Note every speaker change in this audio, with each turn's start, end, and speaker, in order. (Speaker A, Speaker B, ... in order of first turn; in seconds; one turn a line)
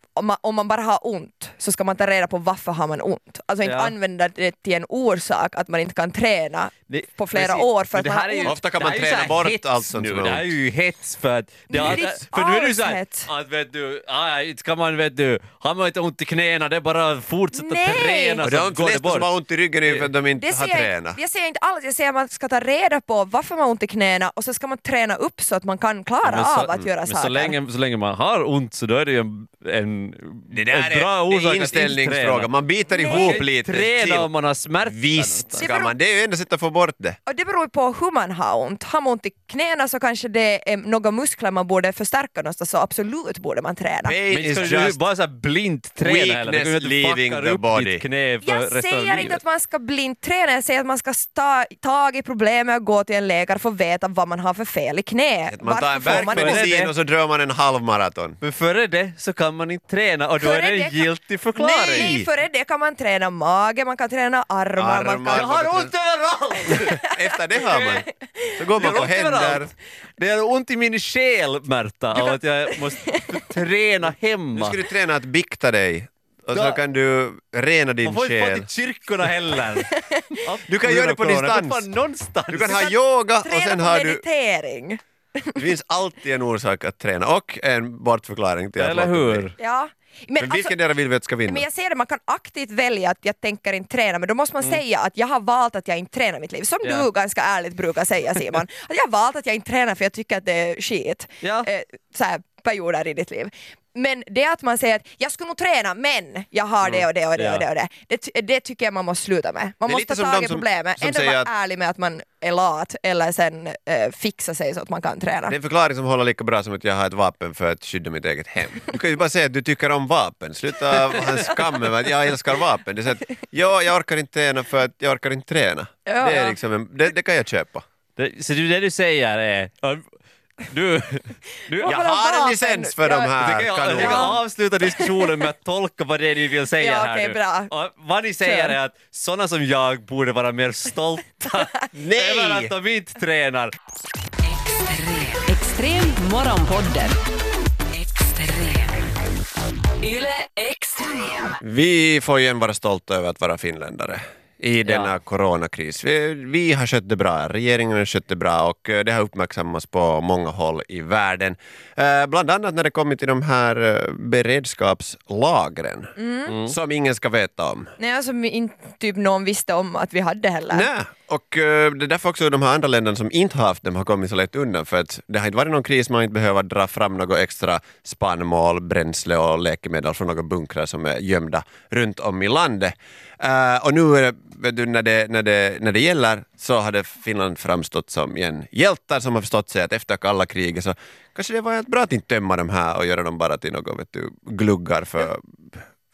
Speaker A: 0.1-8.6
Speaker B: 3.6-3.9
Speaker B: 6.9-19.3
Speaker C: 8.4-10.6
Speaker A: 11.7-13.3
Speaker C: 11.8-12.1
Speaker A: 17.5-18.4
Speaker C: 18.4-21.2
Speaker B: 19.9-20.1
Speaker A: 20.4-27.6
Speaker B: 26.2-35.7
Speaker C: 30.5-34.3
Speaker A: 32.9-33.4
Speaker C: 34.9-37.2
Speaker A: 35.6-35.9
Speaker A: 37.3-44.2
Speaker C: 44.0-45.0
Speaker B: 44.3-49.4
Speaker C: 46.0-48.0
Speaker A: 48.4-56.7
Speaker C: 55.5-58.4
Speaker B: 56.1-56.9
Speaker B: 58.4-62.2
Speaker A: 60.4-65.5
Speaker C: 61.9-62.3
Speaker C: 64.8-65.9
Speaker B: 65.3-67.0
Speaker C: 66.7-68.0
Speaker A: 66.7-68.5
Speaker C: 68.6-69.7
Speaker B: 68.8-74.8
Speaker A: 72.1-73.4
Speaker C: 74.5-78.7
Speaker B: 76.5-76.8
Speaker B: 78.0-82.8
Speaker A: 79.9-80.4
Speaker C: 80.7-81.9
Speaker C: 82.5-84.2
Speaker A: 82.7-85.6
Speaker C: 85.6-89.4
Speaker B: 88.8-89.5
Speaker A: 89.6-90.8
Speaker C: 90.4-91.6
Speaker A: 91.5-115.6
Speaker B: 101.4-101.7
Speaker B: 106.8-107.6
Speaker C: 109.9-111.5
Speaker C: 115.5-127.8
Speaker A: 126.1-126.6
Speaker B: 128.2-130.1
Speaker B: 130.6-132.0
Speaker A: 131.8-133.3
Speaker C: 131.8-134.4
Speaker B: 133.4-143.7
Speaker A: 133.9-135.4
Speaker A: 136.8-137.7
Speaker A: 138.4-138.8
Speaker C: 141.9-142.7
Speaker D: 144.4-147.2
Speaker D: 147.9-149.2
Speaker D: 150.0-151.6
Speaker C: 151.6-167.9
Speaker B: 154.8-155.1
Speaker A: 166.2-166.6
Speaker A: 168.0-170.9
Speaker C: 170.7-195.5